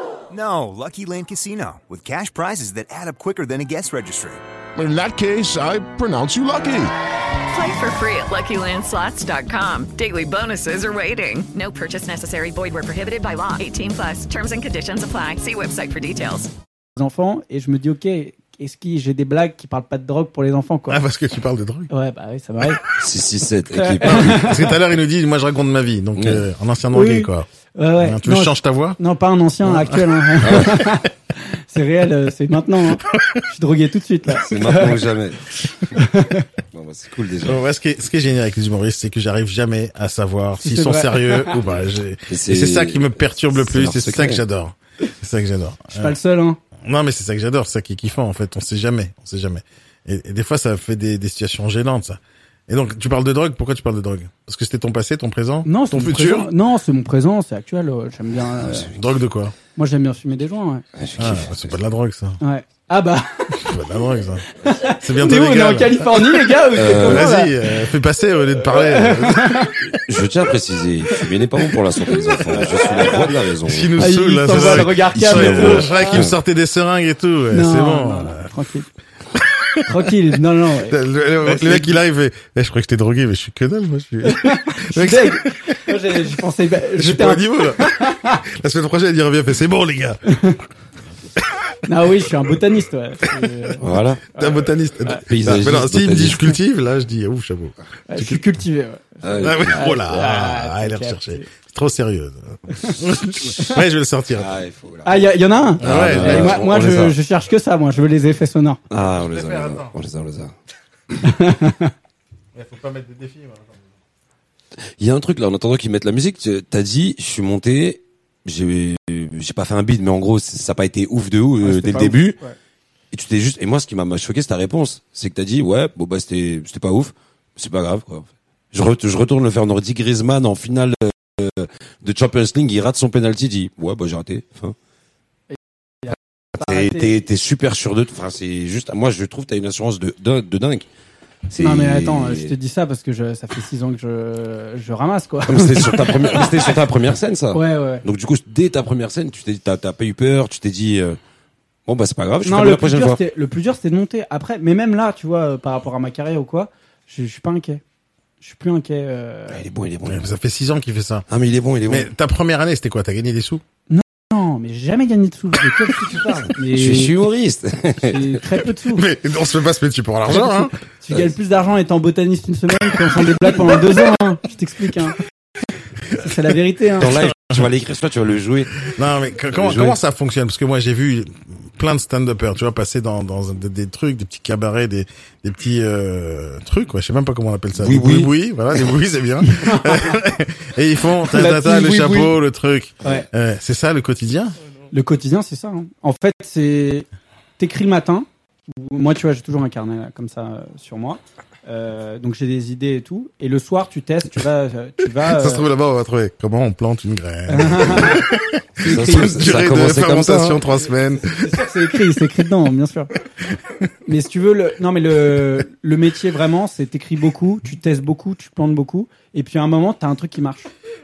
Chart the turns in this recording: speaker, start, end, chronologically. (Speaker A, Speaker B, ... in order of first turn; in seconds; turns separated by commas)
Speaker A: 0.3-4.4, Speaker B: 4.8-6.9, Speaker C: 7.5-16.5, Speaker D: 17.0-21.0, Speaker E: 20.9-21.9, Speaker D: 21.9-22.8, Speaker F: 22.9-24.6, Speaker D: 23.8-24.7, Speaker E: 24.1-27.5, Speaker F: 26.2-26.4, Speaker D: 26.9-35.0, Speaker E: 28.0-29.0, Speaker E: 29.6-30.0, Speaker F: 30.4-30.8, Speaker F: 34.4-35.4, Speaker D: 35.9-36.5, Speaker F: 36.7-37.6, Speaker E: 37.5-46.1, Speaker D: 40.6-41.6, Speaker F: 42.3-44.4, Speaker D: 45.9-46.6, Speaker E: 46.8-56.5, Speaker D: 55.6-58.9, Speaker F: 58.6-58.9, Speaker E: 58.8-59.5, Speaker D: 59.8-60.8, Speaker F: 61.0-61.7, Speaker E: 61.2-62.4, Speaker D: 62.4-63.7, Speaker E: 63.5-69.7, Speaker D: 64.6-67.5, Speaker F: 66.8-67.3, Speaker D: 68.6-69.7, Speaker F: 69.9-74.0, Speaker D: 72.6-73.3, Speaker E: 73.6-78.5, Speaker D: 74.0-76.2, Speaker F: 74.5-76.3, Speaker D: 77.5-78.9, Speaker D: 79.8-82.0, Speaker E: 80.9-85.9, Speaker D: 84.2-88.4, Speaker E: 87.0-90.2, Speaker D: 90.3-90.6, Speaker D: 91.8-95.2, Speaker F: 93.8-94.2, Speaker E: 94.4-98.4, Speaker F: 95.3-96.5, Speaker D: 98.1-101.5, Speaker F: 99.2-99.8, Speaker E: 99.4-104.5, Speaker D: 102.8-103.8, Speaker F: 104.3-105.2, Speaker D: 105.0-108.8, Speaker E: 105.8-106.6, Speaker F: 105.8-107.2, Speaker F: 108.9-110.5, Speaker E: 109.1-109.9, Speaker D: 111.2-111.9, Speaker E: 112.5-113.8, Speaker F: 115.0-122.4, Speaker D: 121.6-122.5, Speaker F: 123.1-134.7, Speaker D: 135.5-137.1, Speaker F: 136.6-140.8, Speaker F: 141.5-142.5, Speaker D: 141.5-146.8, Speaker F: 145.5-151.2, Speaker D: 147.5-148.0, Speaker F: 151.9-153.2, Speaker D: 152.4-157.8, Speaker D: 158.4-159.6, Speaker F: 159.5-160.3, Speaker E: 160.1-161.2, Speaker F: 161.3-162.1, Speaker E: 161.9-163.6, Speaker D: 163.9-167.1, Speaker F: 166.7-168.4, Speaker D: 168.0-169.1, Speaker E: 168.9-170.7, Speaker D: 170.3-175.2, Speaker D: 176.2-177.3, Speaker F: 177.0-178.9, Speaker E: 178.9-194.5, Speaker F: 179.5-179.9, Speaker F: 187.8-188.3, Speaker D: 189.4-190.2, Speaker D: 191.2-192.3, Speaker D: 194.9-197.1, Speaker D: 197.6-205.7, Speaker E: 205.2-211.5, Speaker D: 207.5-209.6, Speaker F: 208.8-210.6, Speaker D: 211.3-213.1, Speaker D: 214.1-220.7